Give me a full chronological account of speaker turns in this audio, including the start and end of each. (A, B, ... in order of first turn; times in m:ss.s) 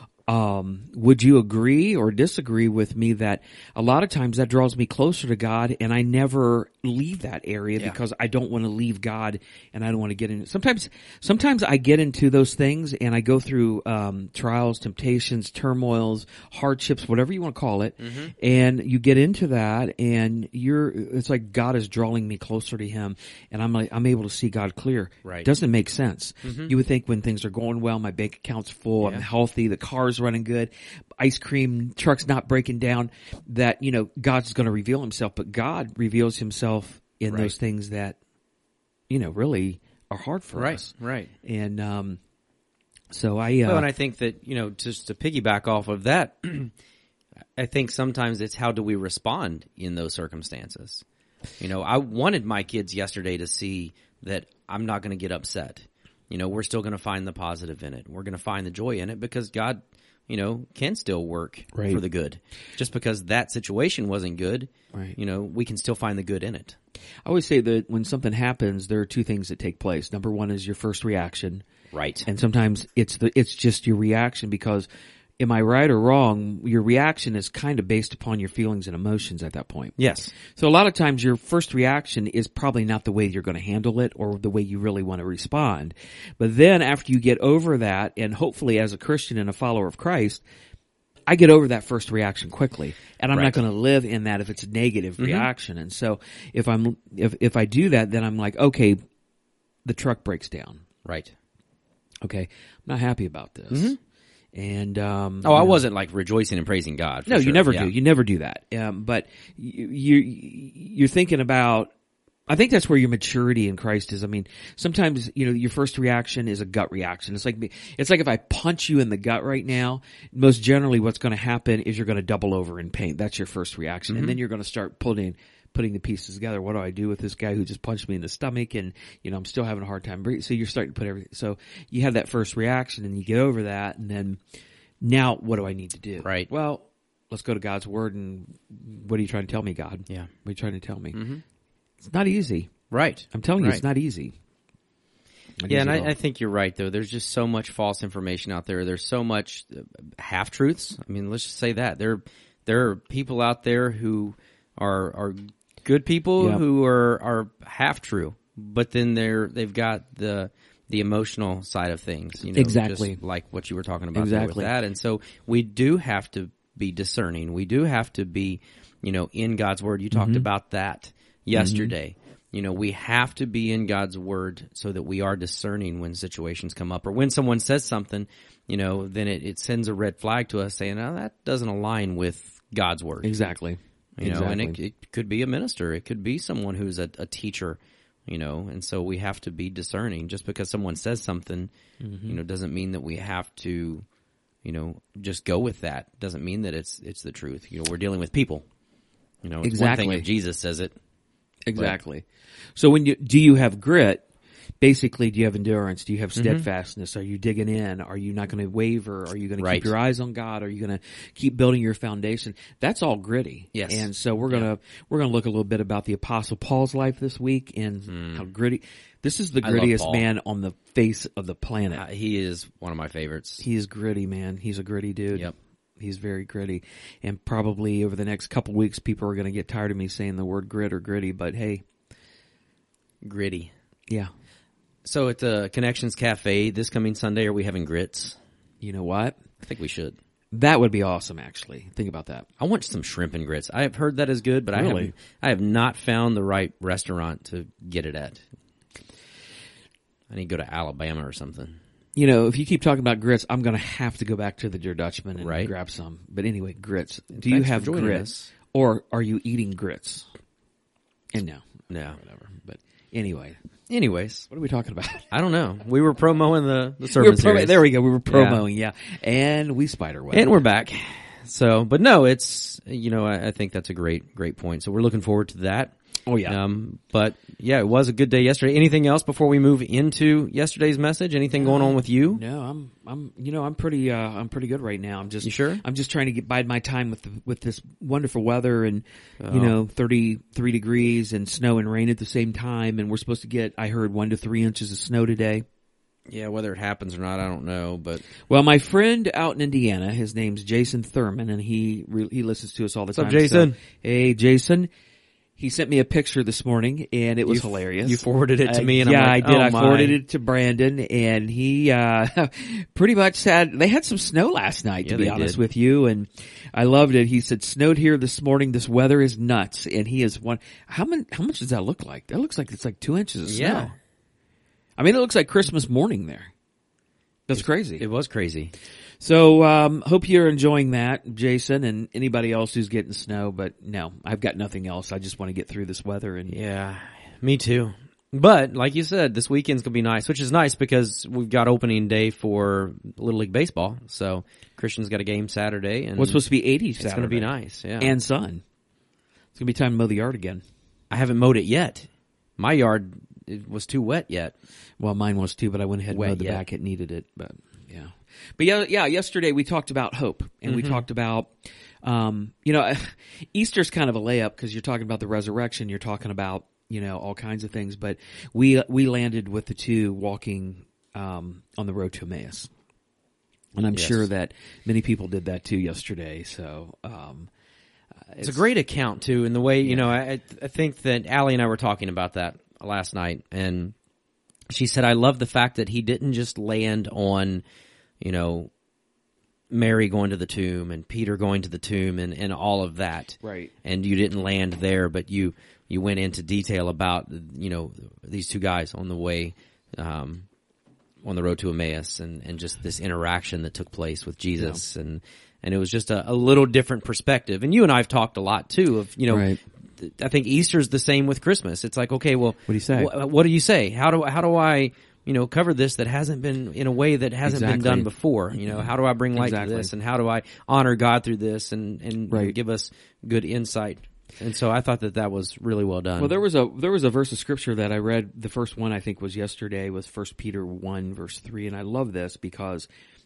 0:00.3-0:38.2 A
0:18.0-0:18.3 B
0:26.4-0:26.7 B
0:37.3-0:37.5 B
0:39.1-0:40.9 A
0:40.6-0:41.3 B
0:41.4-0:42.2 A
0:43.1-0:43.9 A
0:43.6-0:46.7 B
0:47.6-0:51.0 B
0:51.6-1:06.8 B
1:01.7-1:02.0 A
1:07.2-1:11.6 A
1:11.9-1:12.2 B
1:12.2-1:14.9 A
1:15.4-1:30.4 A
1:20.0-1:20.3 B
1:31.3-1:39.0 A
1:33.3-1:33.6 B
1:35.2-1:35.5 B
1:39.8-1:40.8 A
1:41.0-1:41.3 B
1:42.2-1:43.9 A
1:43.7-1:44.0 B
1:44.5-1:45.8 A
1:45.4-1:47.9 B
1:47.3-1:51.9 A
1:52.5-2:14.4 A
2:04.1-2:04.4 B
2:15.0-2:21.2 A
2:16.2-2:16.5 B
2:21.1-2:21.4 B
2:22.0-2:22.7 A
2:22.9-2:23.8 B
2:23.3-2:24.3 A
2:25.6-2:26.1 A
2:25.7-3:03.3 B
2:36.4-2:36.6 A
2:42.5-2:43.2 A
2:44.1-2:44.7 A
2:50.1-2:50.5 A
2:51.5-2:51.9 A
3:03.2-3:04.8 A
3:04.2-3:11.7 B
3:12.0-3:12.4 A
3:12.2-3:14.0 B
3:14.6-3:18.6 B
3:19.4-3:20.9 B
3:19.6-3:20.2 A
3:21.7-3:24.2 A
3:24.8-3:42.0 A
3:26.4-3:26.6 B
3:29.6-3:29.9 B
3:33.7-3:34.7 B
3:38.1-3:38.4 B
3:39.6-3:40.2 B
3:41.9-3:43.6 B
3:43.6-3:51.8 A
3:53.2-3:53.7 B
3:55.0-3:58.4 B
3:58.8-3:59.4 A
3:59.6-4:00.2 B
4:00.5-4:02.4 A
4:02.6-4:08.4 B
4:04.7-4:05.1 A
4:10.3-4:11.8 B
4:12.2-4:20.3 A
4:15.4-4:15.7 B
4:17.3-4:18.5 B
4:21.3-4:23.6 A
4:21.9-4:22.2 B
4:23.9-4:24.5 B
4:24.5-4:25.3 A
4:25.3-4:28.6 B
4:27.1-4:30.5 A
4:30.3-4:42.4 B
4:36.2-4:36.6 A
4:41.6-4:55.6 A
4:45.4-4:45.8 B
4:49.4-4:49.8 B
4:56.3-4:58.2 B
4:58.5-5:04.9 A
5:03.2-5:03.8 B
5:05.6-5:23.9 A
5:07.5-5:10.2 B
5:15.0-5:15.6 B
5:23.5-5:23.9 B
5:25.0-5:26.5 A
5:27.5-5:28.0 A
5:27.6-5:28.7 B
5:29.2-5:36.6 A
5:36.5-5:46.4 B
5:46.2-5:48.6 A
5:47.0-5:48.1 B
5:49.5-5:50.6 A
5:51.1-5:54.5 B
5:55.0-6:12.7 A
5:56.1-5:56.6 B
6:00.7-6:01.0 B
6:13.7-6:17.5 A
6:13.9-6:14.3 B
6:18.3-6:18.6 A
6:18.4-6:23.9 B
6:19.8-6:20.1 A
6:24.7-6:27.6 B
6:28.2-6:28.7 B
6:29.7-6:40.5 B
6:33.4-6:33.7 A
6:41.2-6:49.5 B
6:49.3-6:49.6 A
6:50.0-7:06.4 B
6:52.7-6:53.1 A
6:57.4-6:59.9 A
7:02.3-7:02.5 A
7:06.2-7:12.9 A